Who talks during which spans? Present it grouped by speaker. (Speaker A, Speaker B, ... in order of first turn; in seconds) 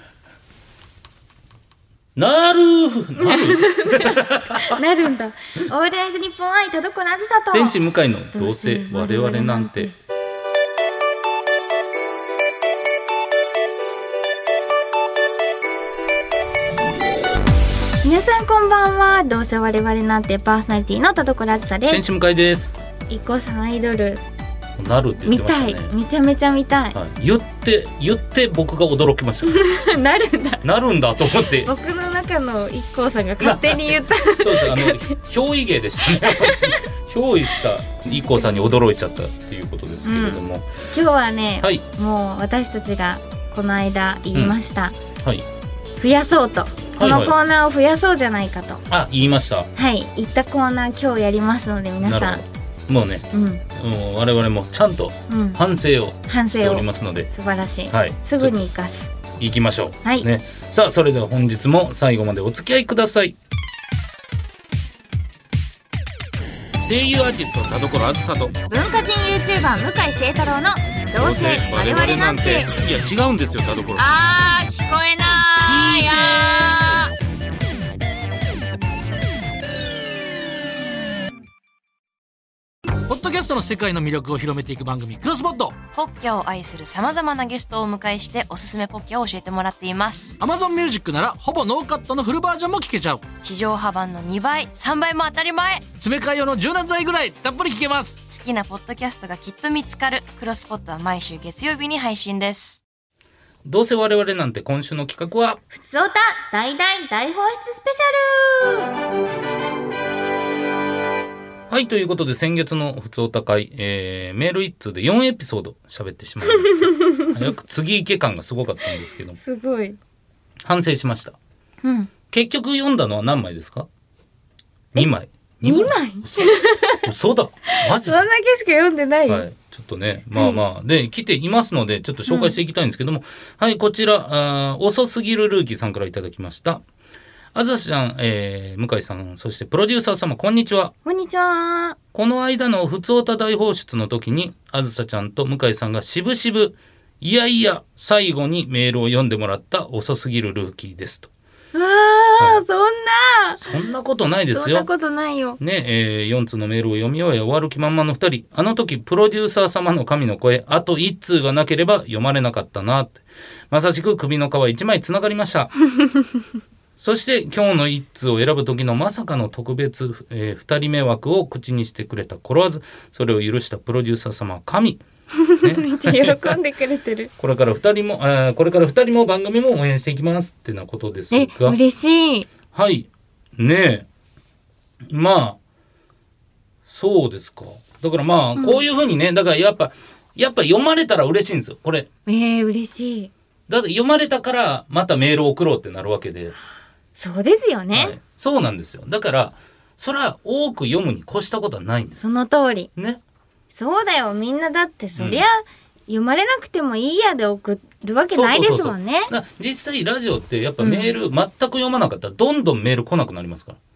Speaker A: 2.1-4.8, 7.5-9.9, 21.9-22.7, 24.8-25.9, 26.9-29.6, 30.6-31.7, 33.4-40.8, 47.0-47.4, 48.9-49.7, 52.0-57.3, 57.9-58.6, 59.4-63.4, 66.8-68.6, 71.2-74.1, 75.6-76.9, 103.6-105.6, 111.7-119.4, 120.6-121.4, 122.3-123.9, 124.9-128.2, 129.3-136.8, 137.5-140.9, 142.1-151.3, 153.6-154.9, 155.6-165.7, 167.0-175.0, 175.6-176.6, 177.4-181.8, 182.7-184.1, 185.0-185.6, 186.9-192.1, 193.7-196.5, 197.9-202.2, 202.9-203.2, 205.2-205.4, 208.3-213.8
Speaker B: 3.2-7.8, 8.3-9.9, 18.0-22.0, 23.1-24.2, 25.2-27.0, 29.4-30.6, 31.6-35.1, 36.0-36.9, 38.2-38.8, 40.0-45.0, 46.0-48.8, 49.8-52.4, 53.3-53.6, 55.3-55.6, 56.3-59.1, 68.7-72.7, 74.0-77.1, 105.7-108.9, 116.6-117.3, 119.4-120.0, 121.8-122.1, 125.6-127.0, 127.7-129.4, 130.3-130.6, 132.3-132.5, 141.0-142.0, 151.7-153.6, 154.5-155.6, 175.4-177.3, 181.3-182.5, 188.6-188.8, 192.2-193.3, 197.2-198.2, 202.2-202.9, 203.7-209.3, 210.8-211.1
Speaker C: 83.0-85.8, 90.4-93.2, 96.0-98.2
Speaker D: 85.9-90.4, 93.4-95.9, 98.3-102.8